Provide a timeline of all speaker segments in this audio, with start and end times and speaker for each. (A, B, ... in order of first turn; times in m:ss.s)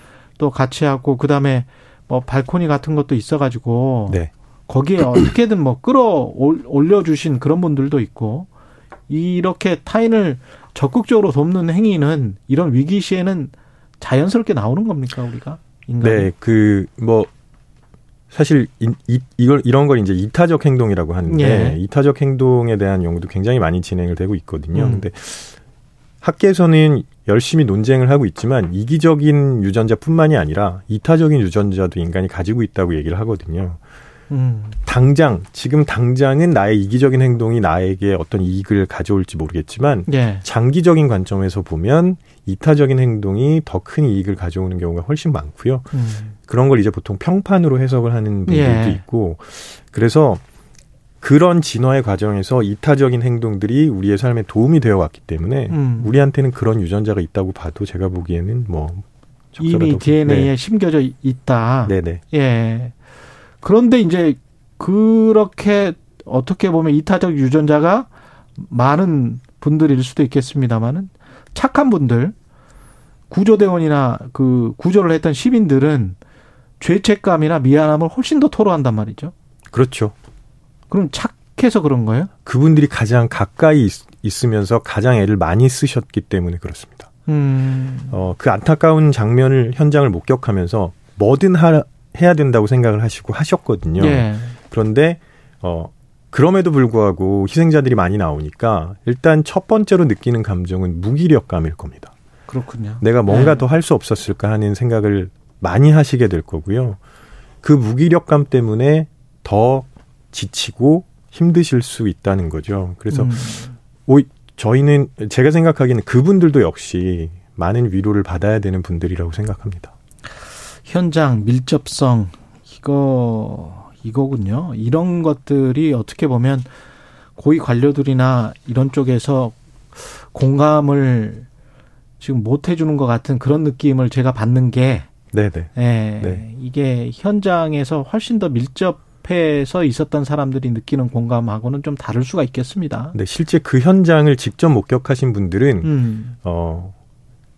0:00.4-0:08.5 A
0:09.1-0:16.3 A
0:16.0-0:17.3 B
0:18.3-0:25.6 B
0:21.3-0:21.8 A
0:24.7-0:25.1 A
0:26.2-0:33.8 B
0:34.3-0:34.8 A
0:34.8-0:50.4 B
0:40.1-0:40.4 A
0:45.9-0:46.3 A
0:48.5-0:49.0 A
0:51.2-1:00.5 B
0:55.7-0:56.2 A
0:59.6-1:02.9 A
1:01.8-1:02.2 B
1:03.6-1:12.3 A
1:13.3-1:16.2 A
1:16.8-1:19.3 A
1:19.7-1:20.1 B
1:20.9-1:22.3 A
1:22.4-1:27.1 B
1:27.3-1:28.2 A
1:28.1-1:42.1 B
1:34.0-1:34.6 A
1:42.5-1:43.6 A
1:43.0-1:47.0 B
1:47.6-1:59.9 B
1:53.1-1:53.7 A
2:00.8-2:06.7 A
2:07.4-2:11.4 A
2:12.2-2:15.1 A
2:15.3-2:16.4 B
2:15.8-2:23.2 A
2:23.1-2:26.9 B
2:25.8-2:26.3 A